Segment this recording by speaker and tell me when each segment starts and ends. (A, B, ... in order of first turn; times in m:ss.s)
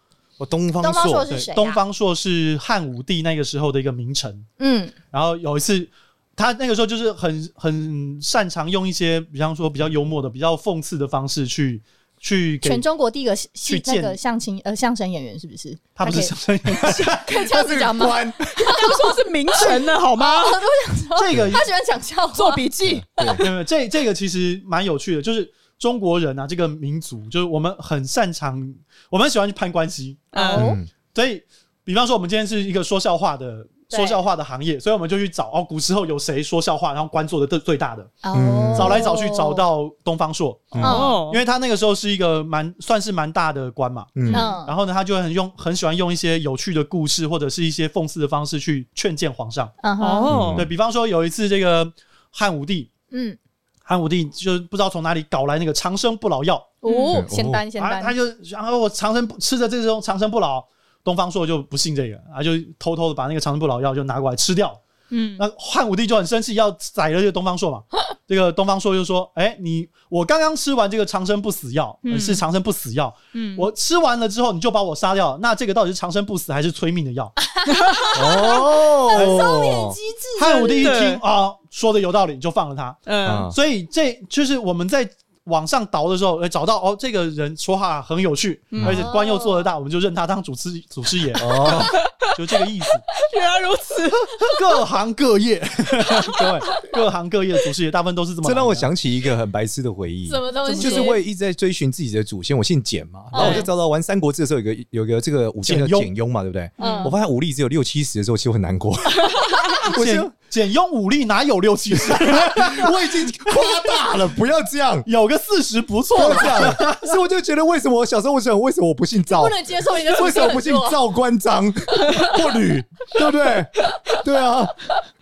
0:00.4-0:01.3 A
0:00.8-0:01.8 B
0:01.3-0:04.5 C
0:04.6-0:05.0 B
0:05.1-0:12.8 C
0:12.6-0:22.7 B
0:13.6-0:14.2 C
0:16.0-0:17.4 C
0:16.7-0:18.7 A
0:18.6-0:20.6 D
0:19.6-0:19.8 C
0:21.2-0:21.7 C
0:22.3-0:23.5 D
0:22.9-0:23.4 A
0:23.4-0:30.4 C
0:30.3-0:30.8 D
0:30.3-0:30.8 B
0:30.6-0:30.9 A
0:31.1-0:38.2 C
0:33.9-0:34.2 B
0:38.2-0:39.6 B
0:38.3-0:39.0 A
0:38.8-0:49.8 C
0:40.8-0:41.4 D
0:40.8-0:41.2 B
0:44.2-0:44.5 A
0:44.3-0:44.6 D
0:44.3-0:44.8 B
0:49.8-0:50.5 B
0:50.0-0:50.6 D
0:50.3-0:50.7 A
0:50.5-0:52.9 C
0:53.1-0:53.4 B
0:53.9-0:56.8 C
0:56.8-0:58.1 B
0:56.8-0:57.2 D
0:57.1-0:57.7 A
0:57.8-1:04.8 C
1:05.1-1:05.5 D
1:05.4-1:17.4 C
1:12.1-1:12.4 D
1:13.3-1:13.7 D
1:17.5-1:21.0 B
1:17.8-1:18.1 D
1:18.1-1:20.0 A
1:19.1-1:19.5 C
1:20.4-1:33.0 C
1:20.8-1:21.2 D
1:23.1-1:23.5 D
1:23.3-1:23.6 A
1:28.7-1:29.1 D
1:28.8-1:29.1 A
1:28.8-1:29.7 B
1:31.4-1:32.0 A
1:31.6-1:32.3 D
1:33.1-1:34.6 D
1:34.4-1:38.9 C
1:36.1-1:36.9 D
1:38.4-1:50.3 A
1:40.3-1:41.2 B
1:40.6-1:41.2 D
1:43.4-1:43.7 B
1:43.4-1:43.7 D
1:45.6-1:46.1 C
1:46.8-1:47.2 D
1:46.8-1:47.1 B
1:49.8-1:53.2 C
1:52.1-1:55.1 A
1:55.0-1:57.2 C
1:56.1-2:04.9 A
1:59.3-2:01.0 B